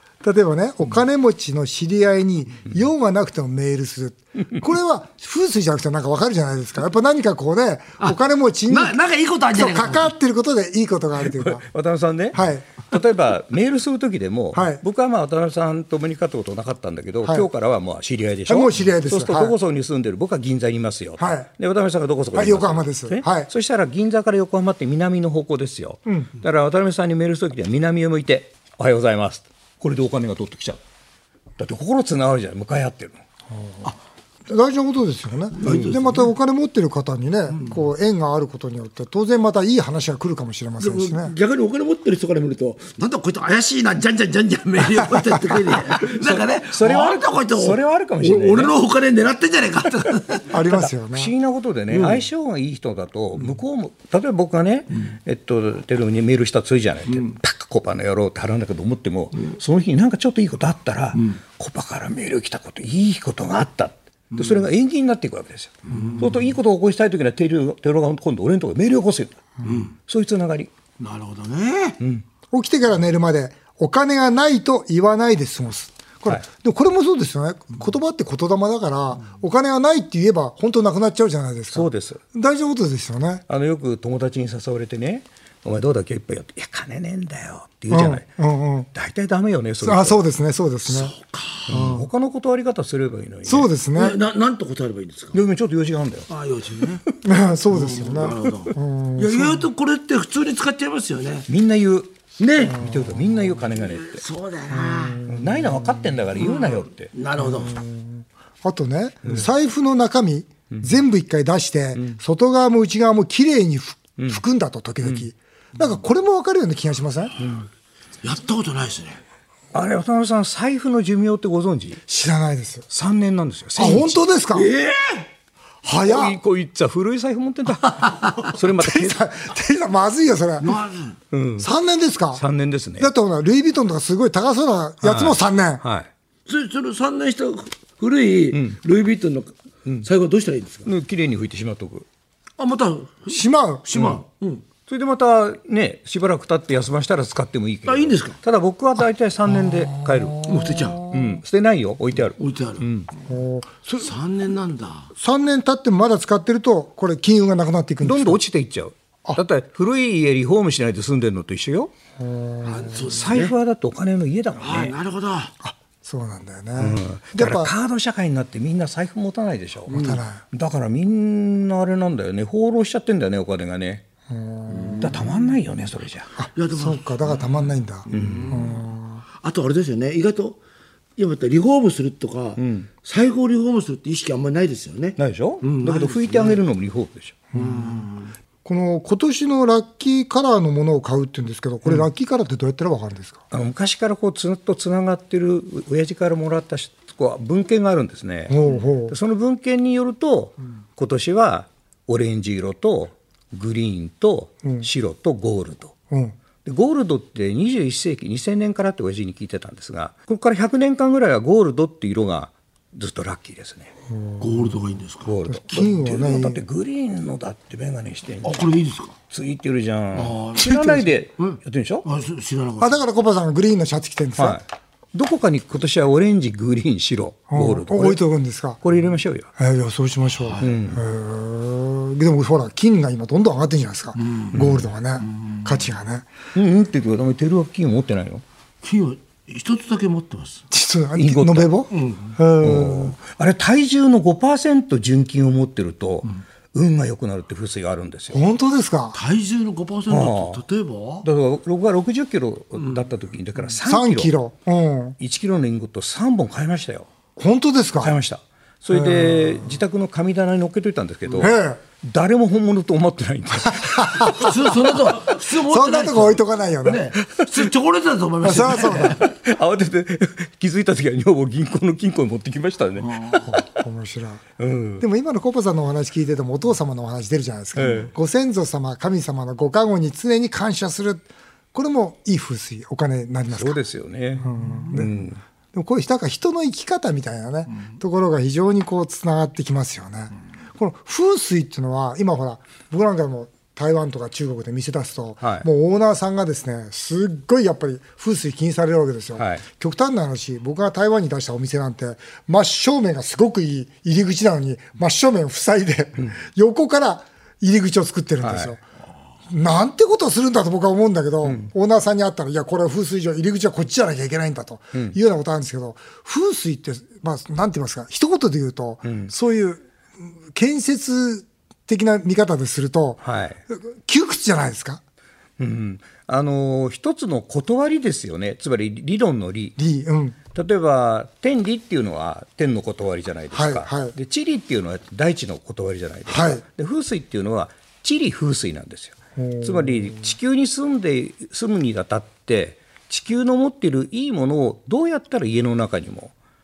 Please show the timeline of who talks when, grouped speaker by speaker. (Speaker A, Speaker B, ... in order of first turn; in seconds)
Speaker A: 0.2-9.0, 9.5-11.6, 12.3-12.6, 14.5-14.8, 18.5-19.5, 21.2-21.5, 22.3-23.5, 26.1-26.3, 33.5-33.9, 34.5-41.3, 50.5-51.3, 72.5-83.4, 87.9-88.9, 89.8-91.1, 91.7-92.0, 93.4-94.2, 97.2-99.6, 102.8-103.2, 104.7-106.0, 107.4-117.3, 122.1-122.9, 123.8-124.7, 125.8-126.4, 128.8-130.8, 131.6-132.4, 133.0-135.8, 143.3-144.2, 149.8-151.1, 153.3-154.1, 155.2-158.4, 162.2-163.2, 165.6-167.7, 169.9-170.4, 174.3-175.1, 176.4-179.2, 187.5-188.0, 188.6-193.4, 198.5-199.1, 214.1-214.7, 215.5-216.6, 220.6-221.0, 222.8-224.6, 227.5-228.8, 229.6-236.3, 240.7-243.1, 248.3-249.2, 253.8-255.2, 257.4-258.1, 258.9-259.7, 261.4-261.8, 263.8-264.5, 265.7-267.1, 268.4-269.2, 273.5-274.4, 275.0-283.8, 284.4-285.1, 285.7-308.8, 309.5-325.0, 329.8-330.4, 333.5-334.1, 336.3-336.6, 339.4-340.3
Speaker B: 8.7-10.1, 35.6-36.3, 37.5-37.8, 40.8-50.6, 51.9-52.2, 65.9-66.5, 69.6-69.9, 71.0-72.0, 90.8-91.8, 94.0-95.4, 96.3-97.0, 97.7-101.5, 102.4-102.8, 103.8-105.2, 106.3-107.8, 118.2-119.2, 124.5-125.3, 130.6-131.2, 136.4-140.9, 142.6-144.6, 147.8-148.4, 150.4-151.1, 152.4-152.9, 154.0-155.1, 162.6-163.5, 164.6-165.5, 169.9-170.2, 174.7-175.4, 176.6-177.5, 178.1-178.8, 179.4-180.6, 181.2-186.6, 187.6-188.3, 214.4-215.3, 218.4-219.2, 220.1-223.0, 230.3-230.8, 234.2-234.6, 235.2-235.7, 238.8-240.6, 241.9-242.3, 249.1-251.2, 264.3-269.2, 273.0-273.5
Speaker C: 11.3-30.8, 31.6-33.2, 46.2-48.7, 50.7-69.4, 70.0-70.7, 72.0-72.2, 81.7-82.2, 83.5-88.2, 88.9-90.2, 91.7-93.7, 95.3-96.3, 101.5-104.2, 105.3-107.1, 110.7-111.0, 117.4-117.6, 119.7-122.0, 122.9-124.2, 126.0-129.2, 131.3-131.7, 132.3-133.1, 135.0-136.1, 138.5-138.8, 140.8-142.1, 144.9-150.5, 151.1-153.1, 158.0-161.9, 163.1-164.9, 166.8-174.0, 175.0-176.3, 178.1-178.6, 182.6-182.9, 185.2-187.4, 193.5-205.9, 206.6-213.9, 215.2-218.7, 219.3-222.1, 224.4-228.2, 228.8-229.5, 230.6-231.0, 234.5-234.8, 236.5-238.4, 241.2-241.7, 242.6-248.4, 250.1-250.6, 251.2-254.3, 255.2-257.1, 258.0-264.7, 269.1-273.6, 274.6-275.0, 277.7-278.1, 283.5-285.4, 299.4-299.6, 308.4-308.8, 311.4-311.7, 319.0-319.3, 323.2-323.6, 325.6-329.8, 330.5-346.3